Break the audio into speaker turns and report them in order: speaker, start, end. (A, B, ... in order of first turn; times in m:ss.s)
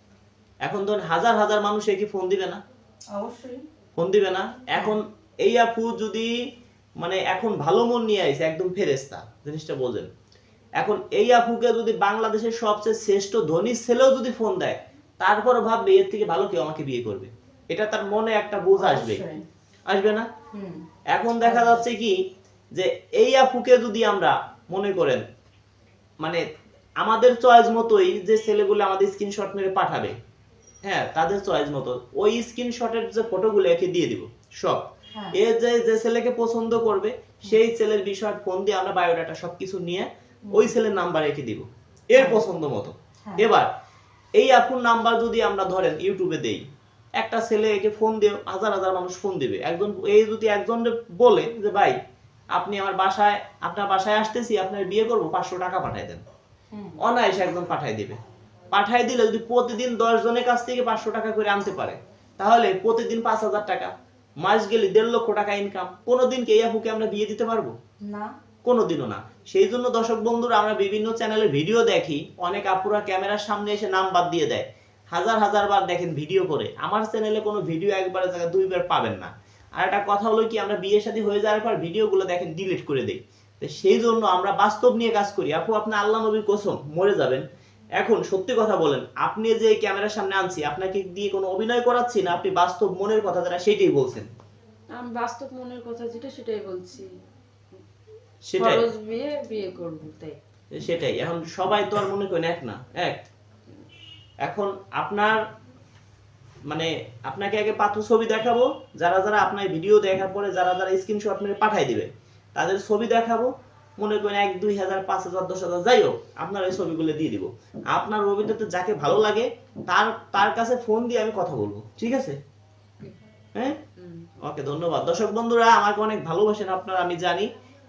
0:00.6-0:02.6 A
0:03.1-0:03.6 B
0:04.0-0:06.3 A
0:07.0-0:10.1 A
0:10.8-0:19.2 A
0:18.8-0:19.4 B
0:19.9-0:20.3 A
0:20.5-0:20.8 B
0:21.1-0:22.2 A
0:21.4-0:21.8 B
0:22.7-0:25.2 A
0:27.0-0:30.1 A
0:30.8-0:43.7 A
0:40.5-0:40.7 B
0:42.1-0:42.4 B
0:44.4-0:46.6 A
0:47.2-0:52.0 A
0:52.5-0:56.2 A
0:57.0-0:58.2 A
0:58.7-1:07.7 A
1:08.0-1:08.3 B
1:08.6-1:27.4 A
1:28.0-1:34.3 A
1:35.0-1:37.1 C
1:38.4-1:38.8 A
1:38.6-1:40.4 C
1:40.7-1:43.2 A
1:44.4-1:45.4 A
1:46.7-2:02.4 A
2:04.0-2:04.3 C
2:04.4-2:07.5 A